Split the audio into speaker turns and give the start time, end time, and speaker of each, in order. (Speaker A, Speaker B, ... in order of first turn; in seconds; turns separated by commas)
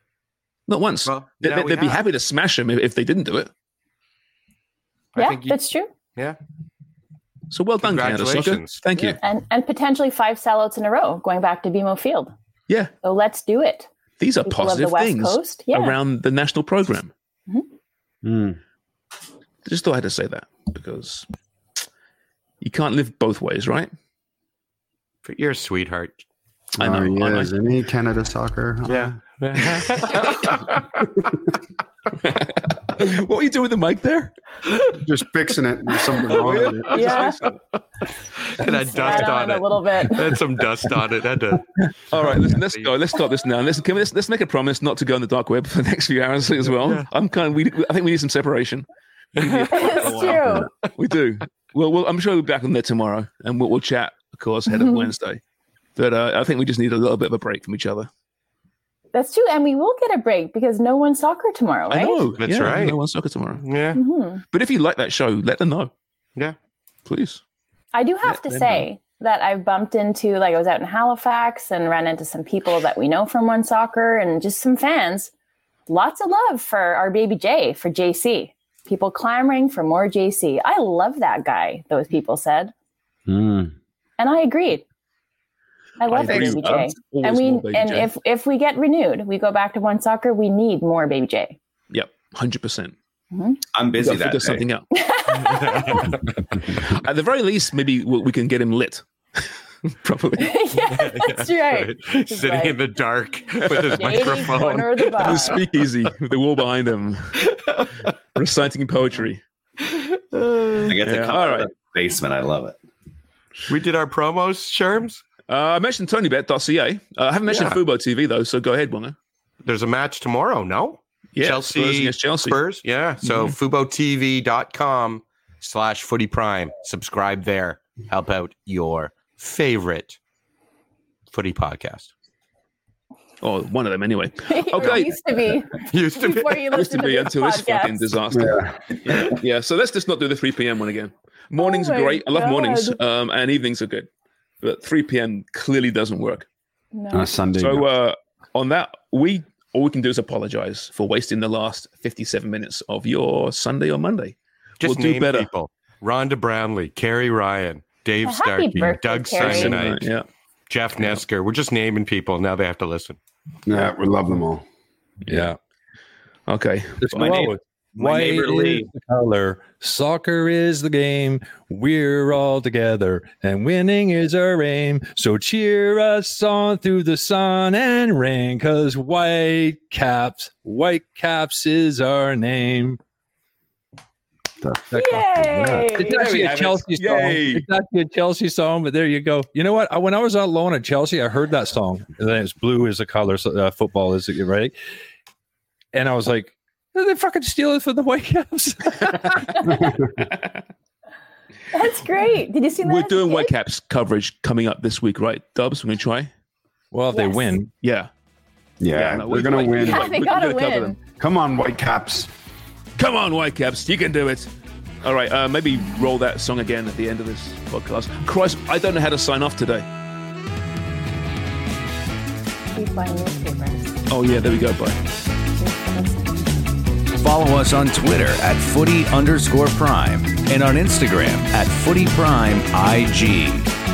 Speaker A: 0.7-3.5, Speaker B: 1.0-2.0, Speaker B: 5.1-5.6, Speaker C: 5.2-5.9, Speaker A: 7.5-9.2, Speaker B: 7.8-9.2, Speaker C: 9.2-12.3, Speaker C: 13.0-13.9, Speaker A: 14.2-17.1, Speaker C: 14.4-15.9, Speaker D: 18.2-18.6, Speaker A: 19.6-21.2, Speaker A: 22.6-23.9, Speaker B: 25.2-26.2, Speaker D: 26.8-29.1, Speaker A: 26.8-27.5, Speaker B: 28.8-31.0, Speaker A: 29.7-30.0, Speaker A: 32.2-34.3, Speaker D: 35.0-37.0, Speaker A: 36.3-37.5, Speaker B: 36.9-37.5, Speaker C: 36.9-37.4, Speaker B: 38.4-43.0, Speaker C: 38.6-40.3, Speaker A: 42.1-48.9, Speaker B: 46.7-47.1, Speaker B: 49.3-50.9, Speaker A: 49.4-55.4, Speaker C: 49.7-50.7, Speaker C: 54.7-55.0, Speaker A: 56.0-58.1, Speaker C: 59.1-62.3, Speaker A: 61.9-63.6, Speaker B: 62.4-63.0, Speaker B: 63.6-64.0, Speaker C: 63.9-64.4, Speaker A: 64.5-65.9, Speaker A: 67.0-67.4, Speaker C: 67.9-75.3, Speaker A: 68.2-68.8, Speaker C: 75.9-82.7, Speaker D: 83.3-83.7, Speaker C: 84.2-84.8, Speaker C: 86.0-91.6, Speaker A: 86.1-88.1, Speaker E: 86.1-86.9, Speaker A: 91.9-92.9, Speaker C: 93.3-93.6, Speaker E: 93.7-94.7, Speaker A: 93.9-94.8, Speaker C: 94.9-96.1, Speaker B: 95.7-96.2, Speaker A: 96.8-100.7, Speaker C: 100.4-102.8, Speaker B: 100.9-105.6, Speaker C: 103.6-105.6, Speaker A: 103.8-104.6, Speaker A: 105.2-107.4, Speaker B: 107.5-107.9, Speaker A: 108.3-109.4, Speaker B: 110.0-110.8, Speaker E: 110.8-112.8, Speaker A: 111.0-111.7, Speaker B: 113.7-115.2, Speaker A: 115.5-119.2, Speaker B: 117.5-117.8, Speaker B: 119.6-130.2, Speaker A: 121.3-122.6, Speaker B: 131.3-132.1, Speaker A: 133.4-135.1, Speaker C: 134.5-138.2, Speaker B: 135.9-136.7, Speaker A: 136.7-144.1, Speaker D: 138.3-139.4, Speaker C: 141.6-143.0, Speaker A: 144.6-146.5, Speaker C: 146.9-147.3, Speaker D: 147.1-147.9, Speaker A: 147.6-155.5, Speaker B: 154.8-160.1, Speaker C: 158.2-159.8, Speaker A: 159.4-160.2, Speaker B: 160.7-163.2, Speaker A: 161.0-161.2, Speaker D: 163.7-164.6, Speaker F: 165.3-165.6, Speaker A: 166.5-167.5, Speaker F: 167.0-183.0, Speaker E: 168.0-168.8, Speaker D: 184.6-185.9, Speaker C: 184.9-186.2, Speaker F: 184.9-194.7, Speaker A: 186.0-187.7, Speaker F: 195.9-199.9, Speaker D: 199.7-200.0, Speaker C: 201.7-203.5, Speaker A: 202.8-206.3, Speaker F: 206.9-207.7, Speaker C: 207.1-207.5, Speaker A: 207.8-208.1, Speaker D: 208.8-210.1, Speaker A: 208.9-211.0, Speaker C: 209.8-211.0, Speaker D: 211.2-212.3, Speaker A: 213.0-214.5, Speaker A: 215.0-219.9, Speaker C: 222.7-224.0, Speaker A: 224.1-225.0, Speaker C: 225.6-226.4, Speaker G: 227.2-233.6